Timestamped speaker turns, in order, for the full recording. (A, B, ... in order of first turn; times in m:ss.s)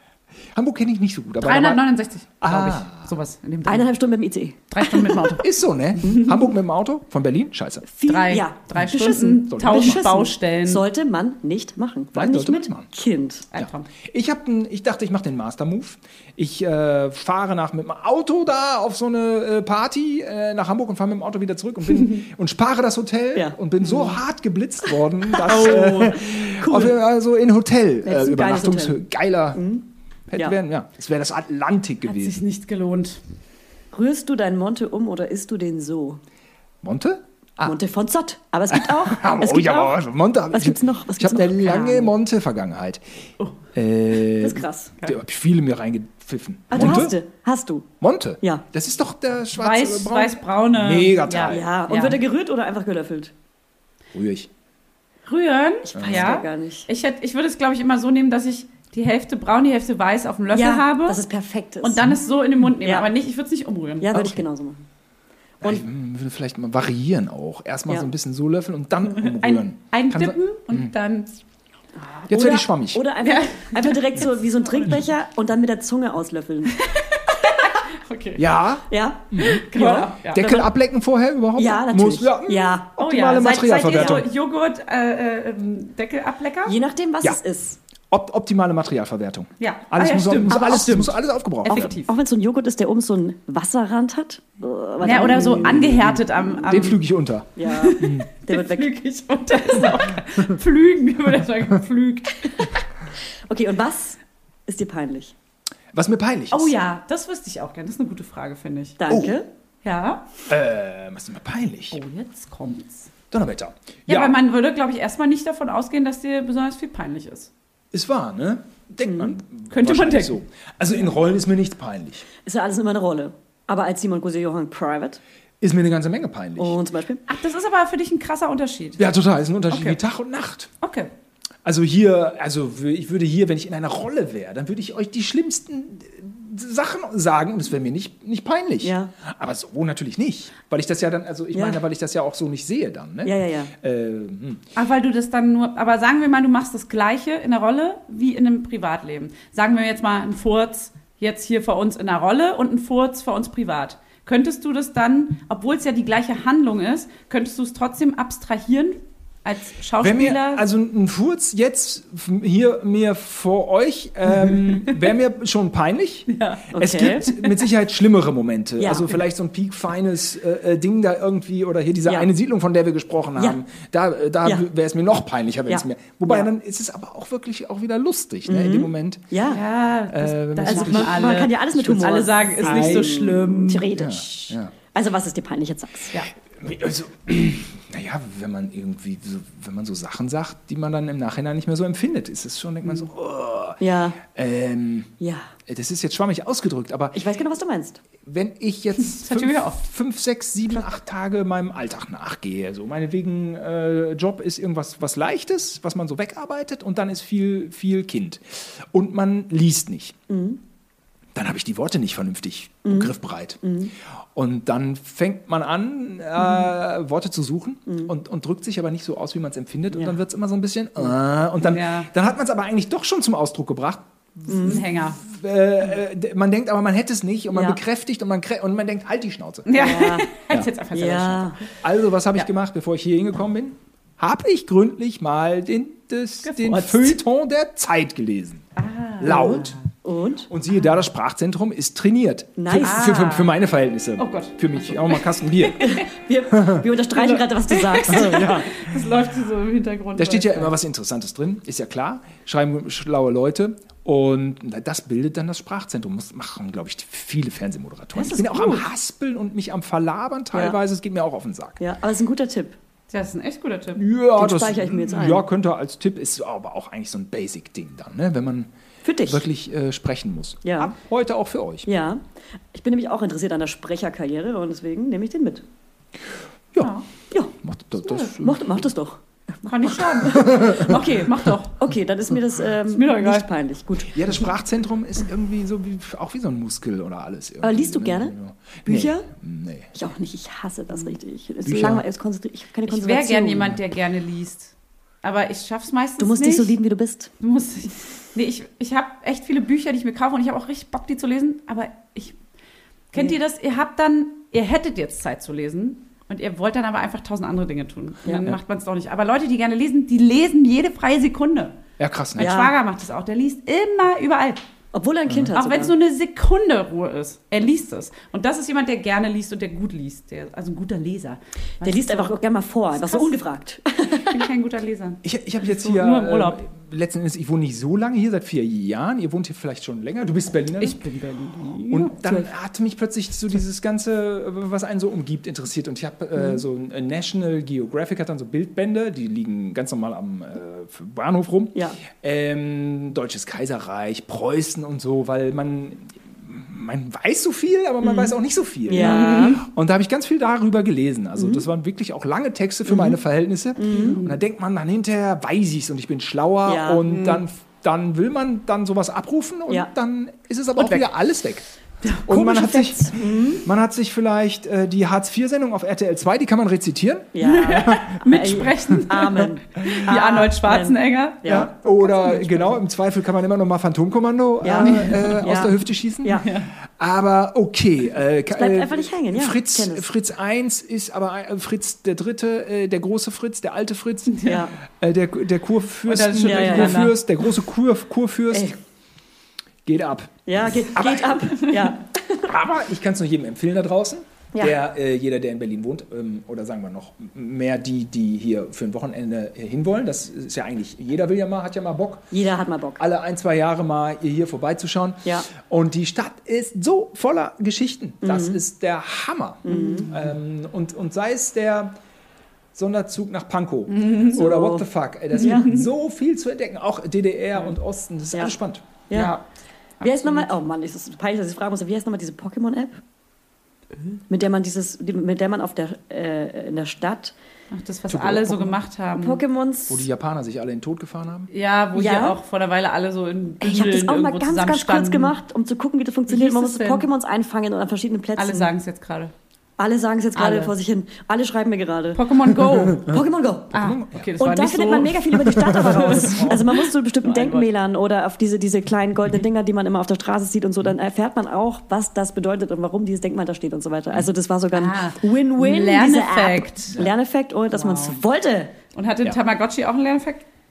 0:00.6-0:03.1 A
0:01.4-0:03.9 B
0:03.6-0:05.2 C
0:04.7-0:05.5 B
0:05.4-0:07.9 A
0:06.0-0:06.4 C
0:07.8-0:13.5 C
0:08.1-0:10.8 B
0:09.5-0:10.1 A
0:12.2-0:13.0 A
0:13.5-0:13.9 B
0:13.6-0:29.6 A
0:23.4-0:24.0 C
0:25.4-0:27.0 C
0:25.5-0:26.4 B
0:28.0-0:29.0 C
0:29.5-0:29.8 C
0:30.3-0:32.4 A
0:32.1-0:33.2 B
0:33.9-0:36.2 C
0:36.8-0:37.8 A
0:37.6-0:39.9 C
0:38.7-0:43.0 A
0:40.5-0:42.1 C
0:43.7-0:47.2 A
0:44.4-0:44.9 C
0:46.7-0:47.9 C
0:48.0-0:51.7 A
0:49.6-0:52.2 B
0:51.5-0:53.3 C
0:54.1-0:54.5 A
0:55.3-1:01.2 B
0:55.9-0:56.9 C
0:56.0-0:56.3 A
1:00.5-1:02.1 C
1:01.8-1:04.1 B
1:02.8-1:03.1 C
1:04.0-1:04.9 C
1:04.1-1:04.4 A
1:05.6-1:10.9 A
1:09.2-1:11.3 B
1:12.0-1:16.8 C
1:12.3-1:13.0 A
1:13.2-1:14.9 B
1:16.8-1:18.4 B
1:18.4-1:19.6 A
1:18.9-1:20.7 C
1:19.4-1:20.5 B
1:20.3-1:24.3 A
1:21.6-1:22.9 C
1:23.0-1:26.8 B
1:23.9-1:24.2 C
1:26.7-1:27.8 C
1:28.1-1:32.0 A
1:29.6-1:32.1 B
1:31.7-1:35.9 C
1:35.0-1:37.0 B
1:35.1-1:38.3 A
1:37.6-1:38.9 C
1:37.7-1:42.7 B
1:43.5-1:45.3 C
1:45.9-1:46.8 A
1:46.5-1:49.0 B
1:49.0-1:49.5 C
1:49.1-1:49.3 A
1:49.8-1:50.3 B
1:50.5-1:52.0 A
1:51.9-1:53.1 B
1:53.3-1:54.4 A
1:54.1-1:57.5 B
1:57.9-2:02.3 A
1:59.0-1:59.4 C
1:59.7-2:00.4 B
2:02.4-2:05.2 C
2:05.6-2:06.8 A
2:06.6-2:07.2 C
2:07.3-2:09.0 B
2:09.0-2:10.7 A
2:09.7-2:10.0 B
2:10.8-2:11.1 B
2:11.6-2:24.6 A
2:18.8-2:19.1 C
2:23.2-2:23.7 C
2:24.8-2:40.6 B
2:40.0-2:59.4 A
2:44.5-2:45.0 B
2:46.3-2:47.6 B
2:46.7-2:47.3 C
2:48.8-2:49.1 C
2:55.7-2:56.5 C
2:58.5-2:59.6 C
2:59.5-3:03.9 B
3:00.1-3:01.3 A
3:00.6-3:06.1 C
3:02.6-3:03.2 A
3:04.0-3:04.7 A
3:06.5-3:15.1 A
3:13.8-3:14.2 C
3:15.2-3:15.5 C
3:15.7-3:17.3 A
3:17.1-3:18.0 C
3:18.2-3:30.2 A
3:19.2-3:19.8 B
3:30.3-3:30.6 C
3:31.4-3:33.6 A
3:32.8-3:33.9 C
3:34.4-3:49.8 A
3:37.9-3:38.1 C
3:41.6-3:42.1 B
3:44.5-3:44.8 C
3:44.6-3:45.2 B
3:47.5-3:47.8 C
3:49.7-3:51.6 B
3:49.8-3:50.3 C
3:50.9-3:51.6 C
3:51.8-3:58.7 A
3:56.4-3:57.2 B
3:58.8-3:59.9 B
3:59.2-3:59.8 A
4:00.0-4:00.5 C
4:00.5-4:06.0 A
4:02.6-4:03.1 C
4:02.8-4:03.5 B
4:04.2-4:06.0 B
4:05.8-4:08.6 C
4:06.5-4:06.9 A
4:07.2-4:10.8 B
4:08.1-4:09.1 A
4:10.2-4:21.8 A
4:18.2-4:18.9 B
4:20.5-4:20.8 C
4:21.8-4:22.8 C
4:23.1-4:24.0 B
4:24.0-4:28.7 A
4:24.4-4:25.5 C
4:29.0-4:29.4 C
4:29.3-4:31.9 A
4:30.6-4:30.9 C
4:31.8-4:35.6 C
4:36.8-4:37.1 B
4:37.5-4:38.7 A
4:38.3-4:44.5 C
4:39.7-4:41.8 B
4:40.2-4:41.1 A
4:42.9-4:43.5 B
4:44.1-4:49.9 A
4:47.6-4:48.3 C
4:48.9-4:49.3 C
4:50.0-4:53.8 C
4:51.6-4:52.0 A
4:52.9-4:56.8 B
4:56.2-4:57.3 C
4:57.4-5:02.4 B
5:03.1-5:11.8 B
5:08.3-5:08.5 C
5:12.0-5:12.6 A
5:12.4-5:12.7 C
5:12.4-5:14.6 B
5:14.9-5:15.9 C
5:15.5-5:22.4 B
5:21.8-5:24.5 C
5:23.0-5:23.3 B
5:24.2-5:26.6 B
5:25.2-5:31.0 A
5:30.8-5:32.1 B
5:31.9-6:01.7 A
5:48.0-5:48.3 C
5:48.9-5:49.6 C
5:49.0-5:49.6 B
5:51.4-5:51.6 C
5:52.9-5:53.2 C
5:53.8-5:54.2 C
5:54.0-5:54.4 B
5:56.6-5:57.0 C
5:57.1-5:57.4 B
6:02.2-6:08.5 A
6:02.3-6:03.7 C
6:07.3-6:11.7 C
6:07.4-6:12.8 B
6:11.5-6:28.8 A
6:14.6-6:16.5 C
6:14.8-6:15.4 B
6:16.4-6:16.7 B
6:18.5-6:20.1 C
6:24.3-6:24.6 B
6:24.5-6:24.7 C
6:26.1-6:27.2 B
6:26.4-6:27.2 C
6:29.9-6:31.8 A
6:30.5-6:32.6 C
6:32.4-6:42.3 A
6:42.3-6:43.0 C
6:43.0-6:52.0 A
6:48.2-6:48.6 C
6:49.6-6:50.1 C
6:49.7-6:50.3 B
6:52.8-6:58.9 A
6:53.9-6:54.4 B
6:54.4-6:55.7 C
6:55.4-6:55.9 B
6:59.1-6:59.4 C
6:59.1-6:59.4 B
7:00.0-7:00.5 B
7:00.0-7:03.0 C
7:04.3-7:07.4 C
7:07.7-7:09.4 B
7:08.1-7:08.8 A
7:09.2-7:10.1 C
7:09.9-7:11.5 A
7:11.5-7:15.3 B
7:12.0-7:12.4 C
7:13.6-7:18.7 C
7:16.3-7:17.1 B
7:18.4-7:19.3 B
7:19.8-7:22.2 C
7:20.4-7:20.7 B
7:22.1-7:23.1 B
7:22.9-7:23.8 C
7:23.7-7:27.7 B
7:23.7-7:24.3 A
7:24.4-7:38.8 C
7:25.4-7:26.5 A
7:34.7-7:37.0 B
7:37.7-7:38.2 B
7:39.0-7:40.5 B